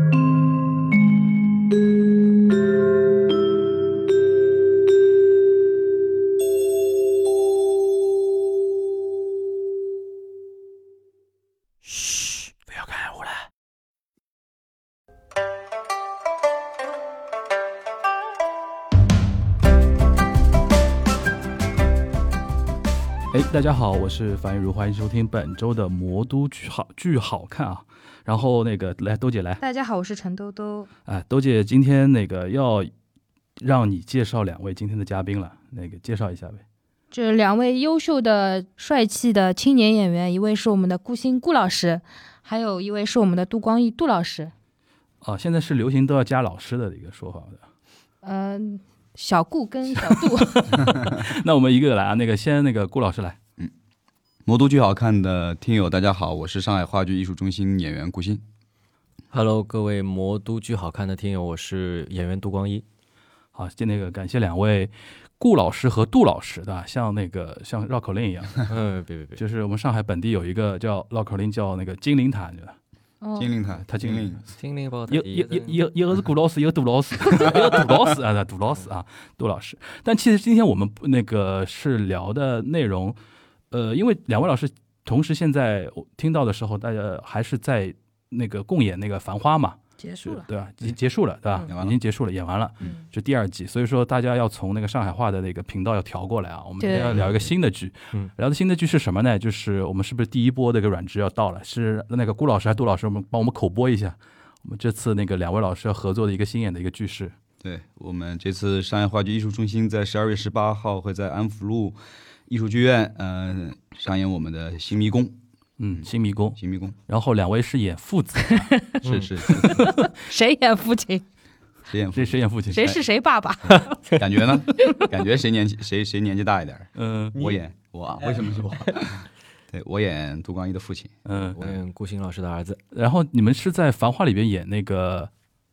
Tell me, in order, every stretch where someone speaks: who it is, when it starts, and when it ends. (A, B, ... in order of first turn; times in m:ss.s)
0:12.7-0:13.5 A
0:23.3-0:29.6 A
0:29.6-0:30.9 B
0:31.1-0:32.9 A
0:33.6-0:36.6 A
0:37.1-0:44.5 B
0:45.2-0:47.6 A
0:48.2-0:51.0 B
0:50.0-0:53.4 A
0:50.9-0:51.1 C
0:54.4-0:58.4 C
0:59.3-1:02.8 D
1:03.6-1:08.7 A
1:08.7-1:09.4 D
1:09.4-1:12.8 A
1:13.2-1:13.5 B
1:13.4-1:14.4 C
1:13.8-1:14.3 A
1:14.6-1:15.8 D
1:15.1-1:23.2 A
1:17.4-1:17.8 C
1:23.7-1:47.3 A
1:30.0-1:30.5 B
1:31.7-1:32.0 C
1:36.8-1:37.2 B
1:36.9-1:37.4 D
1:47.6-1:55.4 C
1:55.8-1:58.8 A
1:55.9-1:57.0 C
1:59.0-1:59.3 D
1:59.0-2:00.0 C
1:59.4-2:01.2 B
1:59.6-2:00.1 A
2:01.9-2:03.0 C
2:02.1-2:03.0 A
2:02.7-2:04.0 B
2:04.1-2:11.8 C
2:07.0-2:07.4 A
2:07.3-2:07.6 D
2:08.2-2:09.1 D
2:11.2-2:11.6 A
2:11.4-2:12.8 D
2:12.9-2:15.3 A